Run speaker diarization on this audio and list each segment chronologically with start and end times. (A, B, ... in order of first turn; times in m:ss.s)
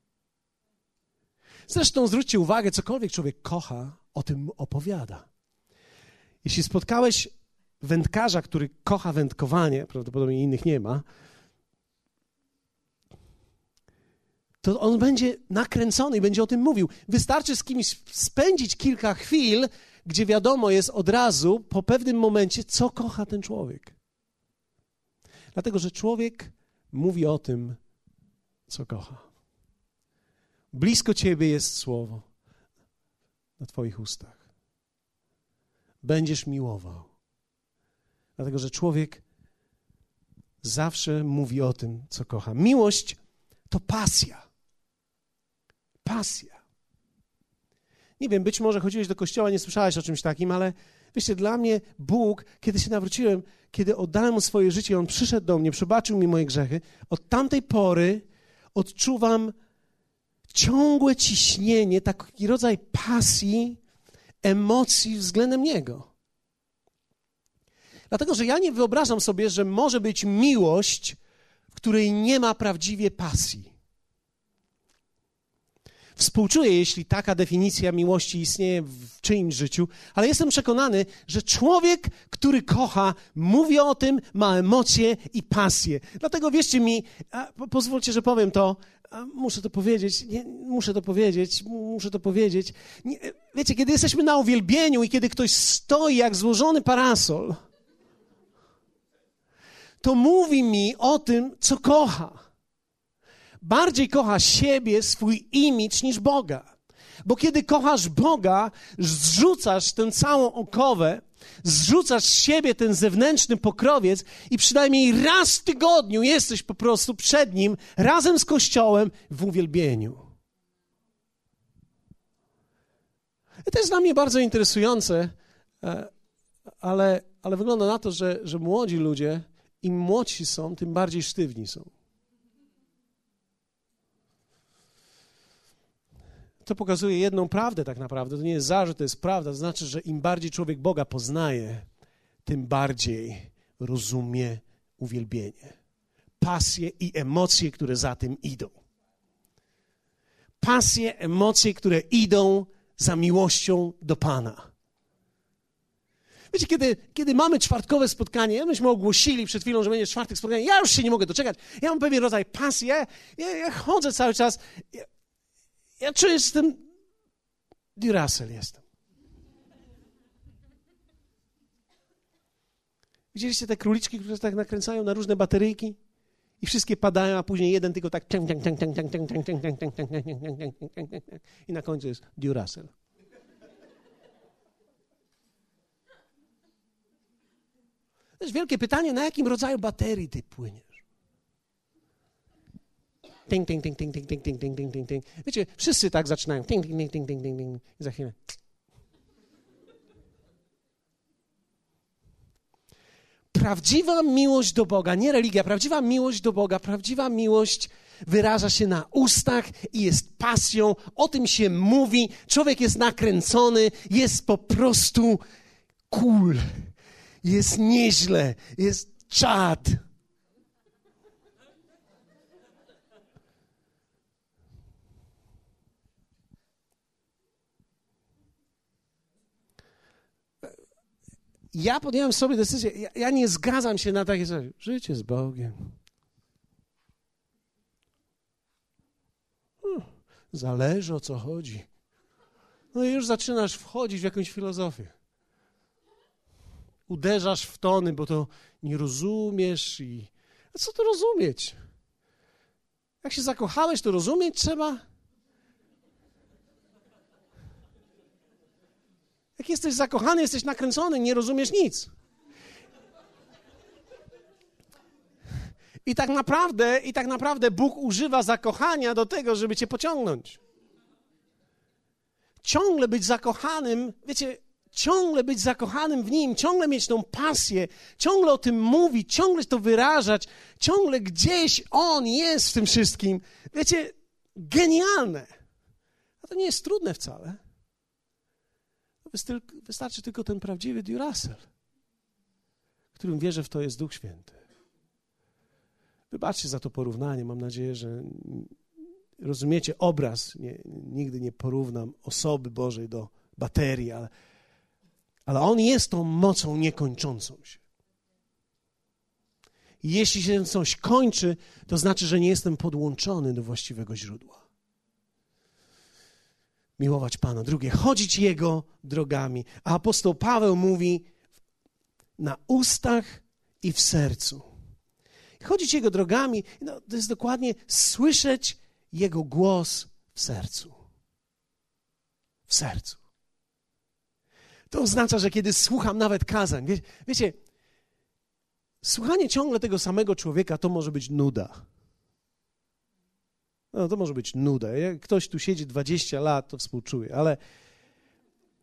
0:01.7-0:05.3 A
0:06.4-0:11.0 A
0:14.6-0:23.9 A
0:25.5-0:27.8 A
0:28.7-0:29.3 A
0:30.7-0:32.2 A
0:33.6-0:34.4 A
0:36.0-0:37.1 A
0:38.4-0:39.2 A
0:40.6-0:43.2 A
0:43.7-0:44.4 A
0:46.0-0:46.6 A
0:48.2-0:59.5 A
1:00.5-1:03.8 A
1:04.4-1:06.1 A
1:08.1-1:11.2 A
1:11.7-1:13.7 A
1:16.2-1:37.6 A
1:40.0-1:42.4 A
1:43.6-1:46.7 A
1:47.2-2:00.3 A
2:03.6-2:06.1 A
2:06.8-2:11.9 A
2:16.6-2:21.9 A
2:22.4-2:25.8 A
2:26.4-2:28.7 A
2:30.6-2:34.7 A
2:36.5-2:45.1 A
2:46.0-2:46.8 A
2:48.0-2:48.8 A
2:53.3-2:56.0 A
2:56.6-3:02.9 A
3:08.4-3:11.0 A
3:13.5-3:18.4 A
3:23.5-3:35.4 A
3:36.1-3:36.9 A
3:37.4-3:40.0 A
3:51.7-3:55.9 A
3:59.8-4:01.9 A
4:02.9-4:05.1 A
4:07.1-4:11.8 A
4:13.2-4:15.0 A
4:19.6-4:22.1 A
4:26.0-4:30.6 A
4:32.6-4:45.5 A
4:46.4-4:47.6 A
4:49.2-4:51.7 A
4:53.1-4:54.6 A
4:56.3-4:58.8 A
4:59.4-5:04.3 A
5:05.5-5:07.8 A
5:10.0-5:14.6 A
5:17.0-5:21.3 A
5:22.4-5:24.6 A
5:25.6-5:31.0 A
5:32.7-5:33.2 A
5:34.9-5:37.6 A
5:39.0-5:41.8 A
5:43.9-5:47.6 A